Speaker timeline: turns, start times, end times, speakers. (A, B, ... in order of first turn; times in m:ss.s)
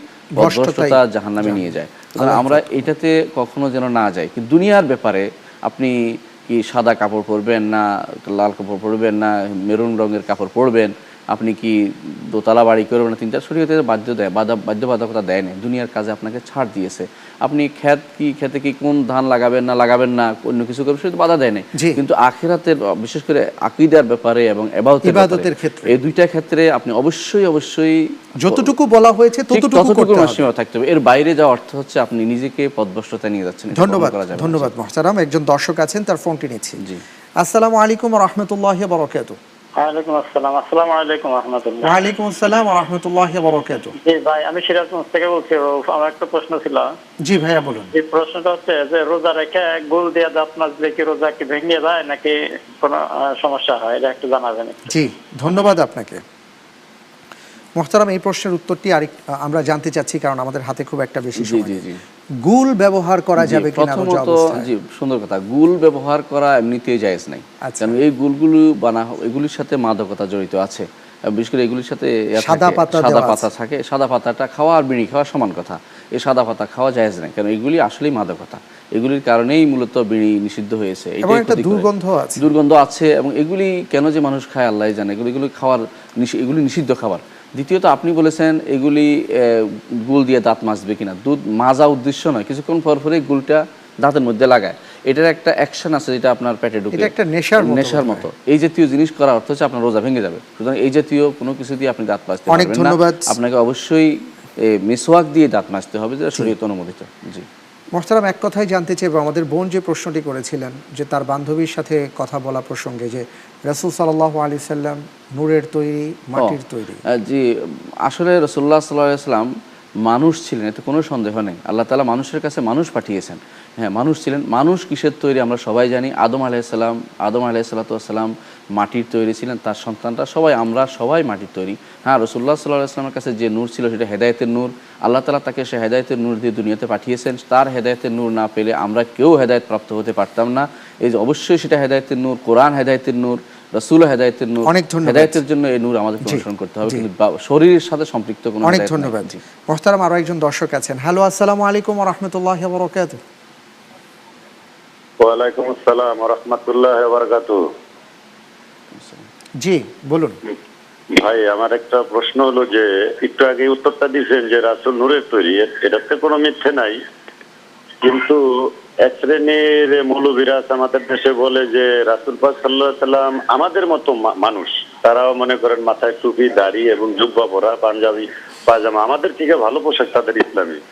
0:00.4-0:02.9 A
0:00.4-0:28.7 B
0:21.7-0:22.0 A
0:25.0-0:25.9 A
0:28.4-0:30.5 A
0:29.5-0:34.7 B
0:33.7-0:36.8 A
0:37.4-0:39.4 A
0:39.8-0:42.1 C
0:41.8-0:44.0 A
0:44.0-0:46.9 C
0:47.2-0:47.9 A
0:47.9-0:54.9 C
0:54.9-0:56.2 A
0:57.8-1:01.8 A
1:01.4-1:02.0 B
1:02.4-1:04.7 A
1:03.4-1:21.9 B
1:07.6-1:08.0 A
1:12.4-1:13.5 A
1:21.2-1:22.5 A
1:22.4-1:47.5 B
1:36.9-1:38.3 A
1:42.5-1:43.3 A
1:48.0-1:57.0 A
1:56.4-1:57.5 B
1:58.1-1:59.5 B
2:00.0-2:29.4 B
2:24.7-2:25.4 A
2:26.2-2:27.1 A
2:28.6-2:33.2 A
2:35.2-2:37.6 D
2:39.0-2:39.2 B
2:39.6-2:40.4 A
2:41.1-2:47.0 D
2:48.0-3:00.8 D